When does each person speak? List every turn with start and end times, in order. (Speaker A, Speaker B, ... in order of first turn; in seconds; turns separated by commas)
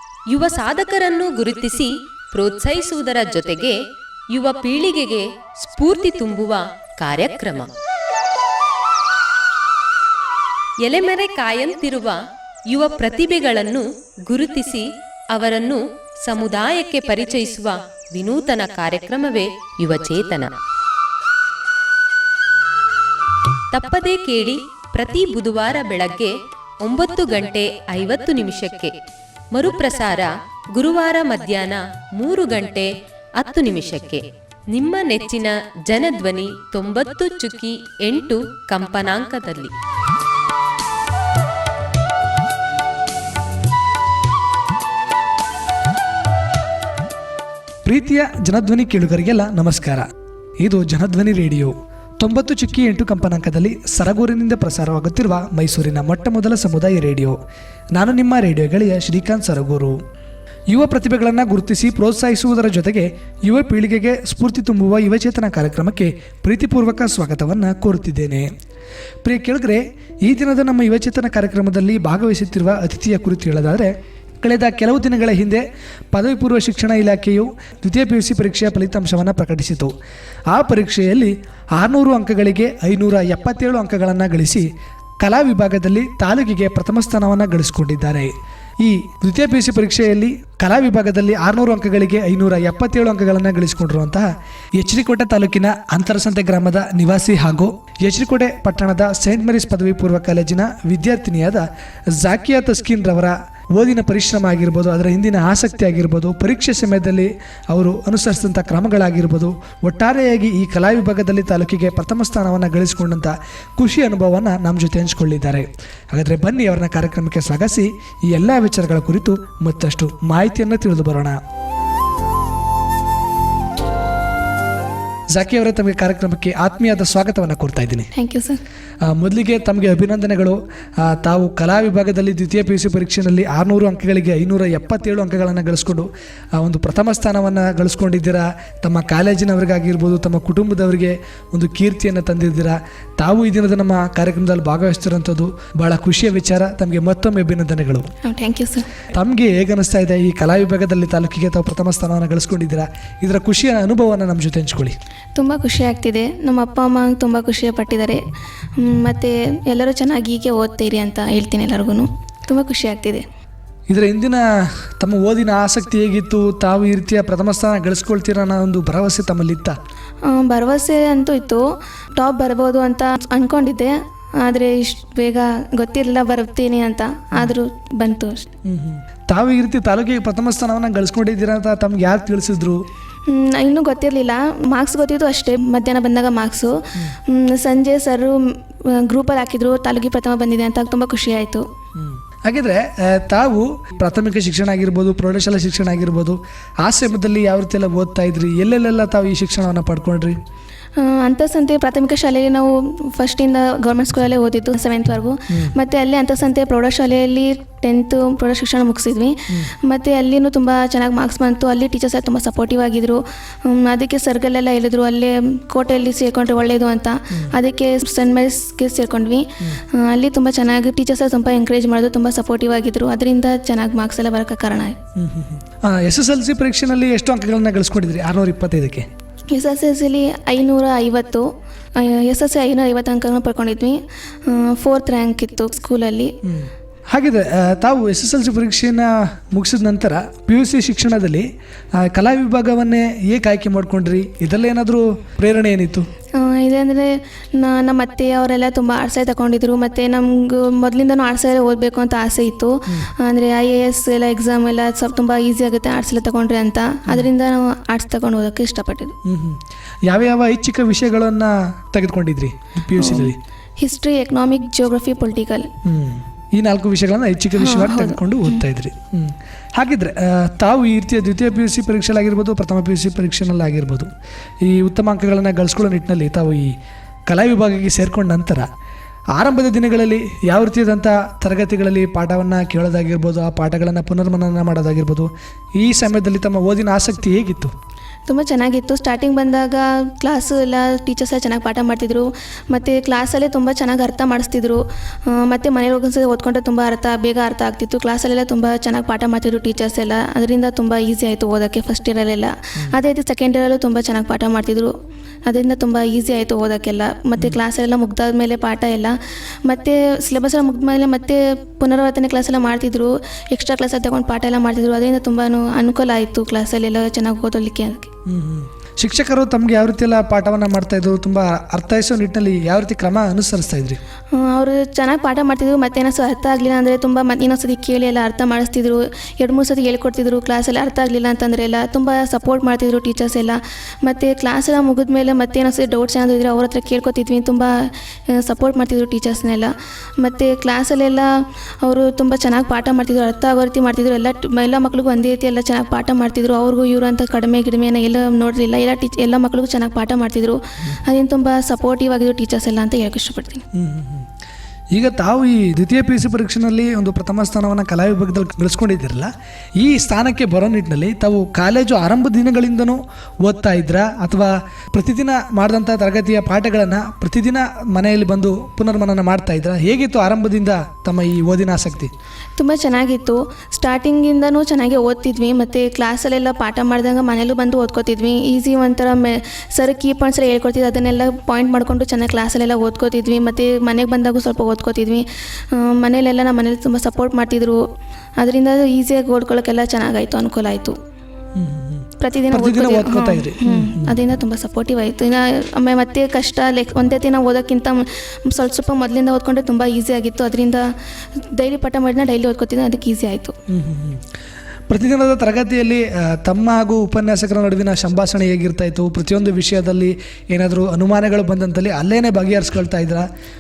Speaker A: 0.3-3.8, Speaker A: 4.3-7.7, Speaker A: 10.8-20.6, Speaker A: 23.7-28.9, Speaker A: 29.5-39.7, Speaker B: 47.9-50.1, Speaker B: 50.6-57.4, Speaker B: 58.0-60.0, Speaker B: 60.7-68.5, Speaker B: 69.2-79.9, Speaker B: 80.5-84.7, Speaker B: 85.2-121.4, Speaker B: 125.3-128.1, Speaker C: 128.1-128.6, Speaker B: 129.0-148.1, Speaker C: 148.2-148.9, Speaker B: 149.1-155.0, Speaker C: 155.3-158.2, Speaker C: 158.8-163.2, Speaker B: 163.9-169.8, Speaker C: 170.3-178.5, Speaker B: 178.7-182.8, Speaker C: 183.3-191.7, Speaker B: 192.0-200.4, Speaker C: 201.0-225.0, Speaker B: 225.2-229.1, Speaker C: 229.5-236.3, Speaker B: 236.4-241.5, Speaker B: 242.0-246.1, Speaker C: 246.4-259.2, Speaker B: 259.2-263.4, Speaker C: 262.9-265.7, Speaker B: 265.9-274.1, Speaker C: 267.6-268.6, Speaker B: 274.6-276.7, Speaker B: 277.3-278.7, Speaker B: 279.4-287.7, Speaker C: 288.3-304.9, Speaker C: 305.5-318.1, Speaker B: 318.3-324.0, Speaker C: 324.3-341.3, Speaker C: 341.8-353.6, Speaker B: 353.7-354.3, Speaker B: 354.9-372.1, Speaker C: 372.6-387.8, Speaker C: 388.4-391.0, Speaker B: 391.6-394.2, Speaker C: 392.2-400.9, Speaker C: 401.4-403.6, Speaker B: 403.7-404.2, Speaker B: 404.9-413.3